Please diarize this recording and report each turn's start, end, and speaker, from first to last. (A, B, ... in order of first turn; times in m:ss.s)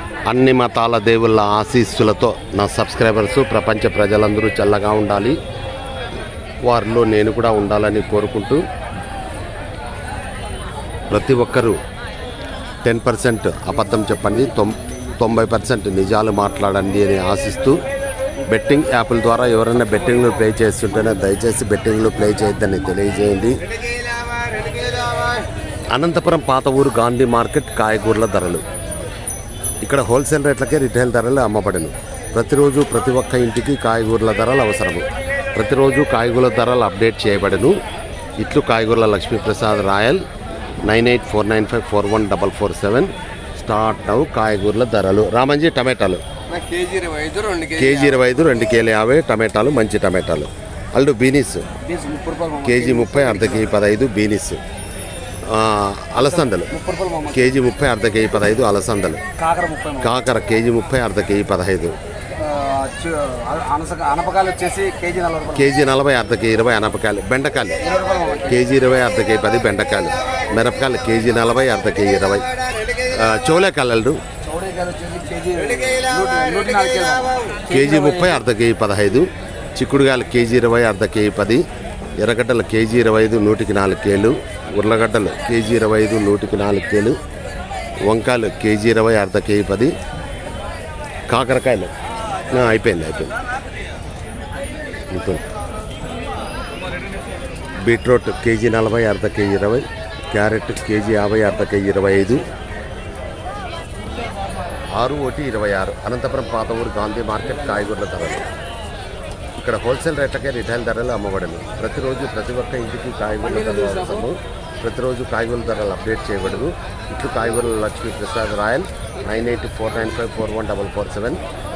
0:00.3-0:05.4 A
0:06.6-0:08.6 A
0:11.1-0:11.8 A
0:12.8-0:17.8 A
0:18.5-0:23.6 A
0:25.9-0:28.6 A
0:29.8-0:35.0 A
0:35.6-0:37.8 A
0:38.4-0:40.2 A
0:40.9-0:46.2 A
0:46.5-0:48.2 B
0:47.8-0:51.6 A
0:51.8-0:53.8 B
0:52.6-0:54.6 A
0:55.5-0:56.7 A
0:56.2-0:57.6 B
0:57.3-0:59.2 A
0:59.4-1:00.2 B
1:00.0-1:02.0 A
1:02.4-1:05.7 B
1:05.6-1:07.8 A
1:07.8-1:08.7 B
1:08.5-1:12.5 A
1:13.1-1:14.2 A
1:14.4-1:18.4 B
1:17.7-1:21.6 A
1:22.2-1:27.2 A
1:28.1-1:29.9 A
1:31.3-1:31.9 A
1:32.5-1:33.3 A
1:35.1-1:35.4 A
1:37.9-1:42.4 A
1:45.0-1:48.5 A
1:49.6-2:01.4 A
1:53.4-1:54.3 B